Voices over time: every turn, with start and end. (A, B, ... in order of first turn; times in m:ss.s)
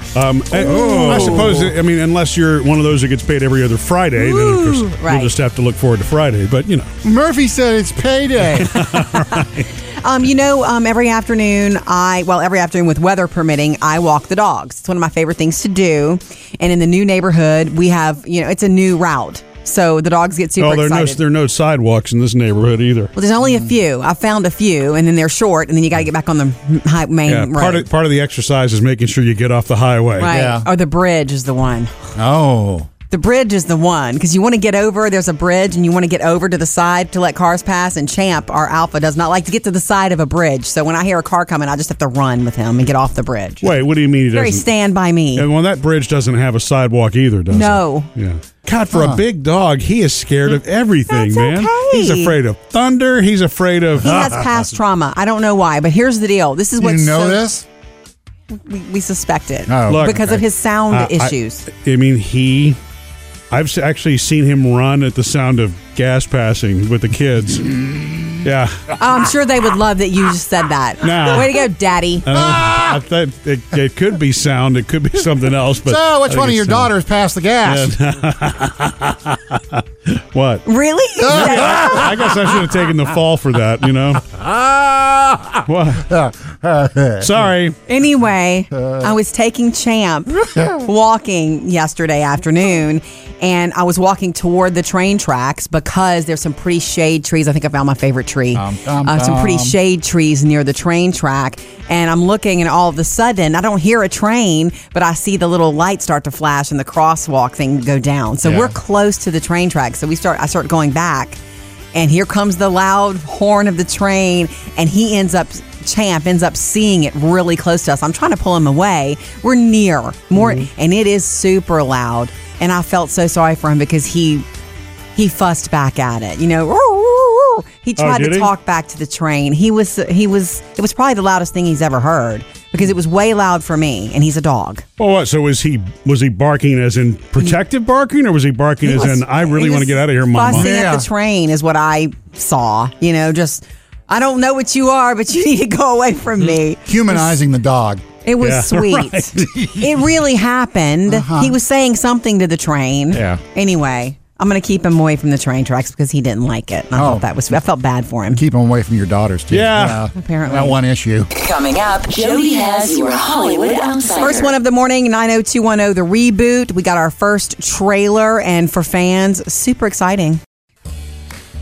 0:00.2-0:06.9 A
0:00.5-0:01.7 B
0:00.6-0:01.5 C
0:04.2-0:05.3 C
0:07.0-0:08.8 B
0:08.6-0:09.7 A
0:08.8-0:09.5 C
0:10.0-0:21.2 C
0:20.6-0:23.1 A
0:23.2-0:27.9 C
0:23.4-0:23.7 B
0:27.3-0:30.3 A
0:30.2-0:32.1 C
0:30.3-0:30.7 B
0:32.2-0:32.9 B
0:33.1-0:43.7 C
0:43.6-0:44.7 A
0:44.3-0:45.5 C
0:45.4-0:54.1 A
0:47.5-0:48.1 C
0:48.9-0:49.2 B
0:51.1-0:52.4 C
0:54.0-0:57.4 C
0:54.0-0:54.7 B
0:56.8-0:57.7 B
0:58.5-1:01.7 C
0:59.7-1:00.2 B
0:59.9-1:02.8 A
1:03.5-1:07.7 A
1:07.7-1:08.4 B
1:08.4-1:08.9 A
1:09.0-1:12.3 C
1:11.0-1:11.7 A
1:12.2-1:16.9 A
1:12.3-1:13.0 B
1:15.8-1:17.9 B
1:17.6-1:20.7 A
1:20.7-1:22.0 C
1:21.2-1:24.2 A
1:21.3-1:22.2 B
1:24.3-1:27.5 B
1:25.7-1:26.0 A
1:27.2-1:27.8 A
1:27.9-1:51.4 C
1:28.7-1:29.1 B
1:38.5-1:39.8 B
1:48.4-1:48.7 B
1:51.9-2:04.4 C
2:00.4-2:00.7 A
2:05.2-2:14.8 C
2:08.0-2:08.5 A
2:15.0-2:20.7 A
2:18.8-2:27.4 C
2:20.5-2:21.1 B
2:26.9-2:28.0 B
2:28.2-2:38.4 C
2:28.4-2:29.4 A
2:29.4-2:29.9 B
2:31.1-2:31.6 B
2:33.1-2:33.4 B
2:37.0-2:37.3 B
2:38.3-2:41.3 B
2:39.5-2:40.0 A
2:40.1-2:40.8 C
2:41.3-2:44.5 D
2:44.2-2:50.4 C